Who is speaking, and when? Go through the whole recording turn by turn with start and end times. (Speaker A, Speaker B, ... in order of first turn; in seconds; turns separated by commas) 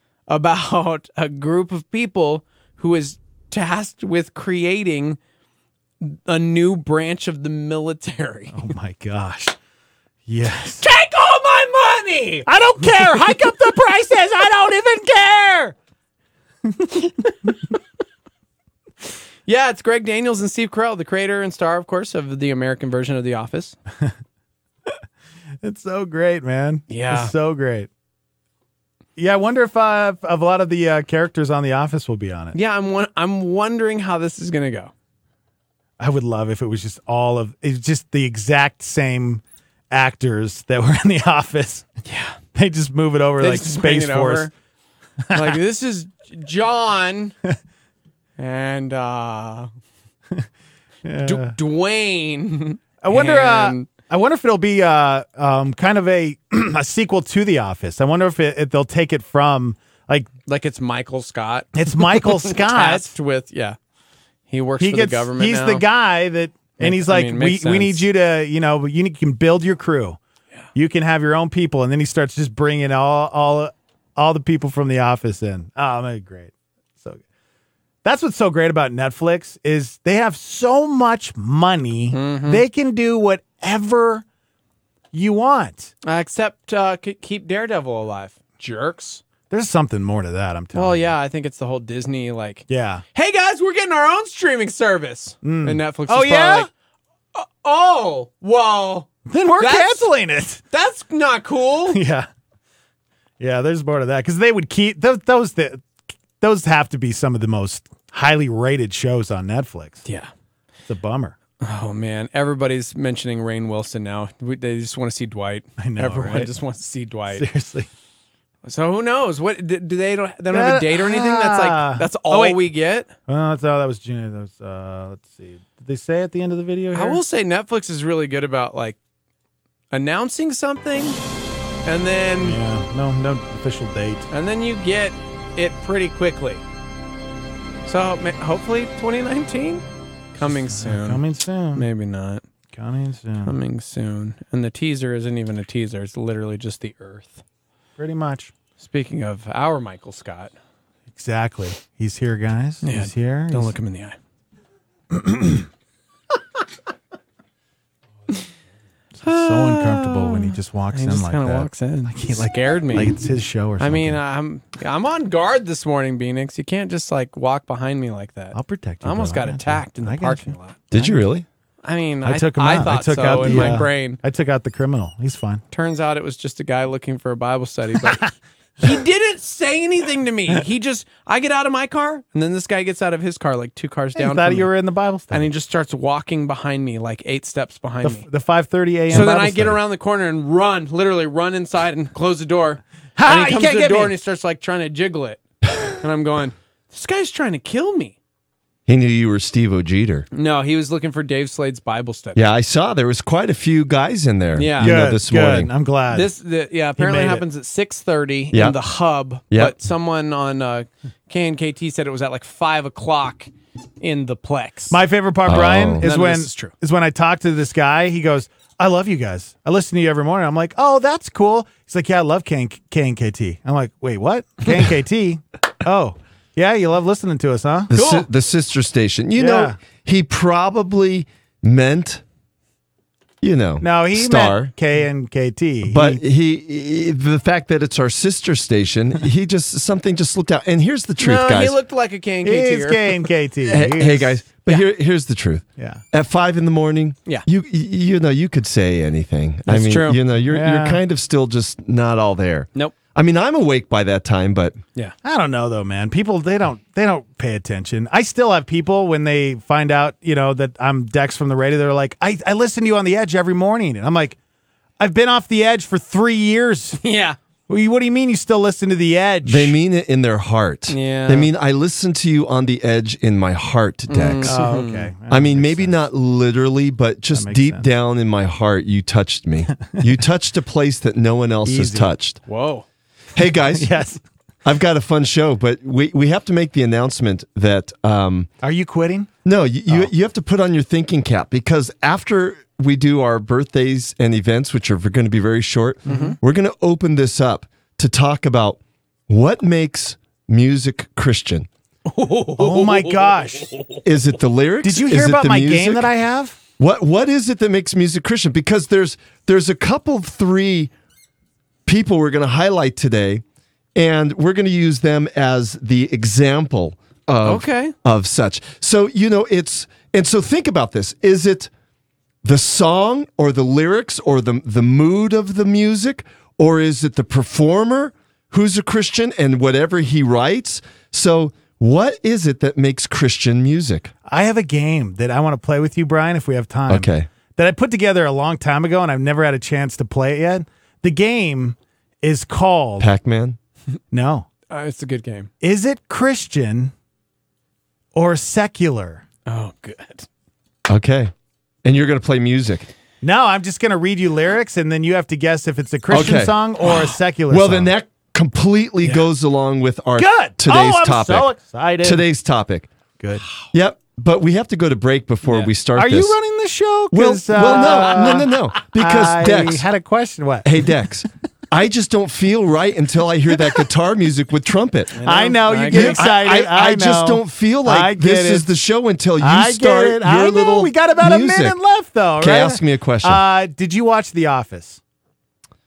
Speaker A: 0.3-5.2, Speaker A: 6.0-8.7, Speaker B: 8.5-9.6, Speaker B: 10.2-10.8, Speaker A: 10.8-12.5, Speaker B: 12.4-15.8, Speaker B: 16.7-17.5, Speaker A: 19.4-23.8, Speaker B: 25.6-27.9, Speaker A: 26.9-27.3, Speaker B: 29.1-32.5, Speaker A: 32.5-34.9, Speaker B: 36.0-41.9, Speaker A: 42.0-42.4, Speaker B: 42.5-44.5, Speaker A: 43.4-44.5, Speaker B: 45.2-45.6, Speaker A: 45.3-47.3, Speaker A: 48.4-49.7, Speaker B: 51.0-51.5, Speaker A: 51.2-53.9, Speaker B: 53.0-60.3, Speaker A: 60.5-63.8, Speaker B: 61.8-63.1, Speaker A: 64.5-65.8, Speaker B: 64.8-70.2, Speaker A: 66.8-68.1, Speaker B: 70.7-77.2, Speaker B: 78.0-84.2, Speaker A: 82.1-82.6, Speaker B: 85.1-85.9, Speaker A: 86.0-89.2, Speaker B: 89.5-91.1, Speaker A: 90.7-96.7, Speaker B: 92.7-93.0, Speaker B: 95.4-96.7, Speaker A: 97.3-100.1, Speaker B: 99.2-100.6, Speaker A: 100.7-102.0, Speaker B: 101.9-102.3, Speaker B: 103.4-110.0, Speaker B: 110.8-111.3, Speaker A: 111.6-117.4, Speaker B: 115.8-116.5, Speaker B: 117.3-117.9, Speaker A: 118.6-123.1, Speaker B: 120.5-122.6, Speaker B: 123.3-127.2, Speaker A: 126.9-129.0, Speaker A: 129.9-131.2, Speaker A: 131.8-132.6, Speaker B: 132.4-134.3, Speaker A: 134.3-136.6, Speaker A: 137.8-141.2, Speaker B: 140.4-141.8, Speaker A: 141.7-142.4, Speaker B: 142.7-143.5, Speaker A: 143.4-147.4, Speaker B: 148.0-148.5, Speaker A: 148.8-150.5, Speaker B: 151.1-153.7, Speaker A: 152.8-154.2, Speaker B: 155.1-155.7, Speaker B: 159.2-164.2, Speaker A: 159.2-163.1, Speaker A: 163.8-170.8, Speaker B: 168.5-171.3, Speaker C: 170.9-171.4, Speaker A: 171.8-174.2, Speaker B: 172.2-175.6, Speaker A: 175.7-178.2, Speaker B: 178.0-178.3, Speaker A: 178.8-184.7, Speaker B: 184.1-185.5, Speaker A: 185.3-188.2, Speaker B: 188.0-189.8, Speaker A: 189.1-198.2, Speaker B: 193.2-194.1, Speaker C: 198.8-200.2, Speaker A: 200.3-202.4, Speaker C: 202.3-205.7, Speaker A: 204.6-205.0, Speaker B: 204.8-206.3, Speaker A: 206.1-215.0, Speaker B: 206.9-207.4, Speaker C: 208.5-208.8, Speaker C: 209.5-209.8, Speaker B: 214.9-227.9, Speaker C: 215.5-216.0, Speaker A: 216.0-216.7, Speaker C: 227.9-232.2, Speaker A: 227.9-228.3, Speaker B: 229.3-229.8, Speaker C: 233.4-234.7, Speaker B: 233.8-236.2, Speaker C: 235.8-241.8, Speaker A: 241.2-243.3, Speaker B: 242.4-244.4, Speaker C: 243.6-254.8, Speaker B: 245.8-246.0, Speaker A: 249.7-250.2, Speaker B: 250.4-251.0, Speaker B: 255.2-264.4, Speaker B: 265.0-267.0, Speaker A: 267.0-267.4, Speaker B: 267.7-269.8, Speaker C: 269.4-282.4, Speaker A: 270.9-271.5, Speaker A: 274.1-275.1, Speaker B: 274.4-276.0, Speaker B: 277.3-277.9, Speaker B: 279.8-280.1, Speaker B: 281.6-282.1, Speaker A: 282.4-282.9, Speaker C: 283.4-283.9, Speaker B: 283.7-284.2, Speaker C: 284.6-288.5, Speaker B: 288.6-289.3, Speaker C: 289.4-301.7, Speaker A: 296.1-296.4, Speaker B: 296.1-296.4, Speaker A: 302.1-303.2, Speaker B: 302.6-303.7, Speaker C: 304.0-306.1, Speaker B: 304.8-306.6, Speaker C: 306.8-310.9, Speaker C: 311.9-313.4, Speaker C: 313.9-321.7, Speaker A: 317.4-317.9, Speaker C: 322.4-334.1, Speaker B: 334.2-343.1, Speaker C: 336.9-337.3, Speaker C: 343.0-343.6, Speaker B: 344.1-344.5, Speaker A: 344.7-345.5, Speaker B: 345.6-346.9, Speaker B: 348.1-349.2, Speaker A: 349.4-350.3, Speaker C: 350.9-351.3, Speaker C: 351.8-352.9, Speaker B: 353.2-357.9, Speaker C: 356.1-356.6, Speaker C: 357.5-362.9, Speaker B: 360.2-362.2, Speaker B: 363.2-363.4, Speaker C: 363.7-366.4, Speaker A: 365.5-365.7, Speaker B: 365.9-371.0, Speaker C: 367.1-369.8, Speaker C: 370.6-375.2, Speaker A: 375.1-376.4, Speaker B: 375.2-378.7, Speaker C: 375.9-381.8, Speaker B: 379.4-385.0, Speaker C: 382.4-383.4